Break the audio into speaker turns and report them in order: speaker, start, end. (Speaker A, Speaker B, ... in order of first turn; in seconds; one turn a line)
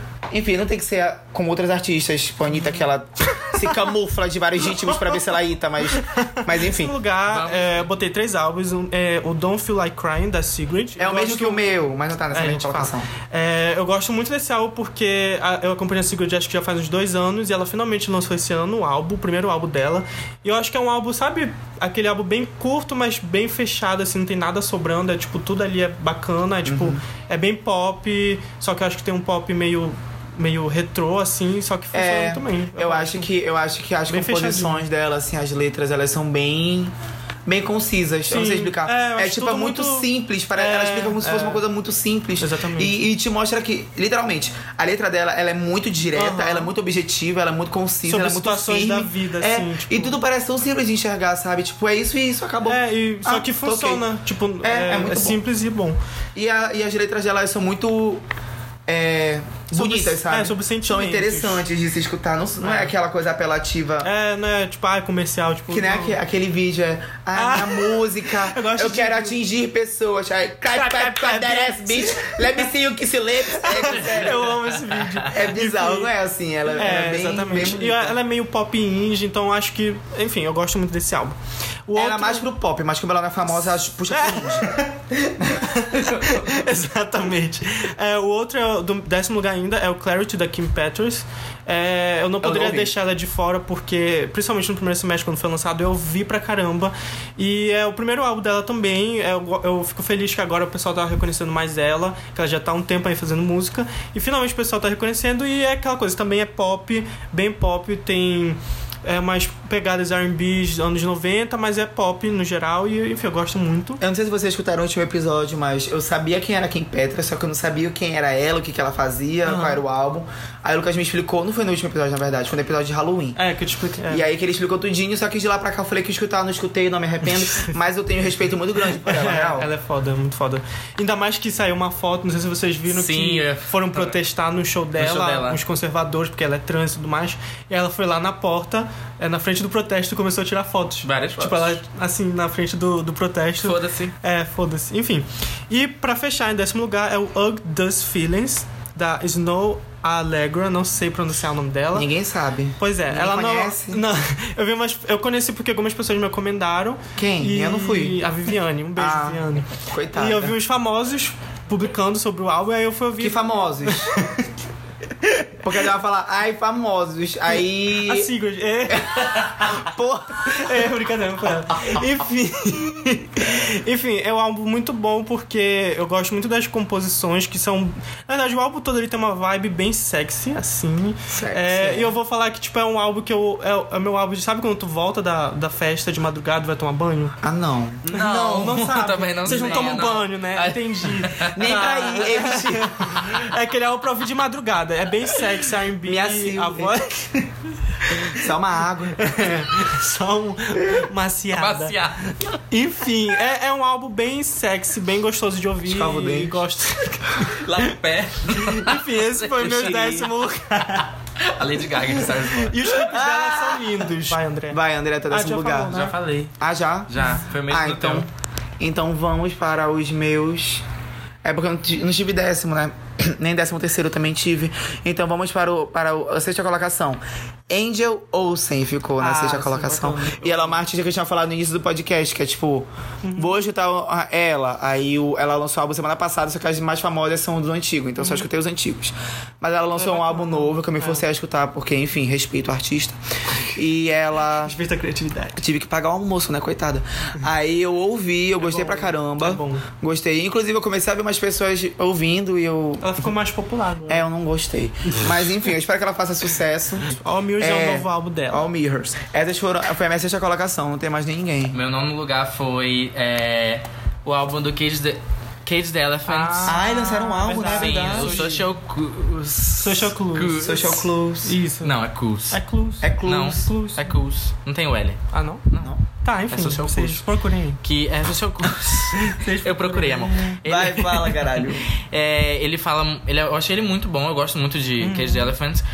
Speaker A: 0.3-7.0
Speaker B: 3.4-3.7
Speaker B: 6.0-11.7
Speaker C: 7.3-7.9
Speaker A: 11.0-13.1
Speaker B: 12.3-33.3
Speaker A: 26.6-27.0
Speaker A: 31.9-36.9
Speaker B: 34.1-34.8
Speaker A: 37.5-54.1
Speaker B: 38.3-41.6
Speaker B: 42.4-43.0
Speaker B: 46.1-46.7
Speaker B: 48.0-50.2
Speaker B: 52.7-56.0
Speaker A: 54.6-55.4
Speaker A: 56.4-58.2
Speaker A: 58.9-64.1
Speaker B: 59.7-61.7
Speaker B: 62.6-62.9
Speaker B: 64.0-66.2
Speaker A: 65.7-74.6
Speaker B: 67.3-69.4
Speaker B: 70.7-72.6
Speaker B: 73.5-76.1
Speaker A: 75.2-78.2
Speaker B: 76.7-82.5
Speaker A: 82.0-84.7
Speaker B: 84.1-85.0
Speaker A: 85.2-86.3
Speaker B: 85.5-114.0
Speaker A: 92.4-92.9
Speaker A: 114.0-123.4
Speaker B: 119.5-119.8
Speaker B: 123.4-124.2
Speaker A: 124.1-129.7
Speaker B: 127.4-127.7
Speaker B: 129.0-152.1
Speaker C: 132.9-134.2
Speaker C: 135.0-135.6
Speaker C: 141.0-141.8
Speaker C: 143.6-144.2
Speaker A: 151.9-154.0
Speaker B: 152.8-164.4
Speaker A: 157.2-158.2
Speaker A: 159.0-160.5
Speaker A: 163.2-164.4
Speaker A: 165.6-168.3
Speaker B: 167.5-169.9
Speaker A: 168.9-170.7
Speaker B: 170.4-187.4
Speaker A: 181.3-182.2
Speaker A: 187.4-188.9
Speaker C: 188.1-192.3
Speaker B: 188.1-197.3
Speaker A: 189.5-190.1
Speaker A: 191.6-192.9
Speaker A: 196.1-197.5
Speaker B: 198.1-198.4
Speaker A: 198.3-199.3
Speaker B: 199.2-201.9
Speaker C: 201.5-202.5
Speaker B: 202.7-207.9
Speaker A: 205.8-206.6
Speaker C: 207.5-210.3
Speaker B: 208.5-211.1
Speaker C: 211.4-213.0
Speaker B: 212.5-216.2
Speaker A: 213.0-215.9
Speaker C: 215.9-216.5
Speaker A: 216.6-217.1
Speaker C: 217.1-218.3
Speaker A: 217.7-218.3
Speaker A: 218.8-220.8
Speaker A: 221.4-244.8
Speaker B: 229.2-230.8
Speaker B: 233.2-233.6
Speaker B: 238.2-238.5
Speaker B: 239.9-241.3
Speaker B: 244.6-245.6
Speaker A: 245.6-253.3
Speaker B: 248.6-249.9
Speaker B: 253.0-254.3
Speaker A: 254.1-261.8
Speaker B: 257.1-258.7
Speaker C: 261.7-266.8
Speaker B: 266.3-268.6
Speaker A: 266.6-268.5
Speaker C: 267.5-271.1
Speaker B: 269.8-270.8
Speaker A: 270.6-271.6
Speaker B: 271.4-271.9
Speaker C: 271.8-272.6
Speaker B: 272.5-274.1
Speaker A: 273.0-273.6
Speaker C: 273.2-275.9
Speaker B: 275.3-275.7
Speaker B: 276.2-277.8
Speaker C: 276.5-277.2
Speaker C: 277.8-281.3
Speaker B: 279.1-281.3
Speaker A: 280.6-281.9
Speaker C: 282.0-285.8
Speaker B: 285.0-285.5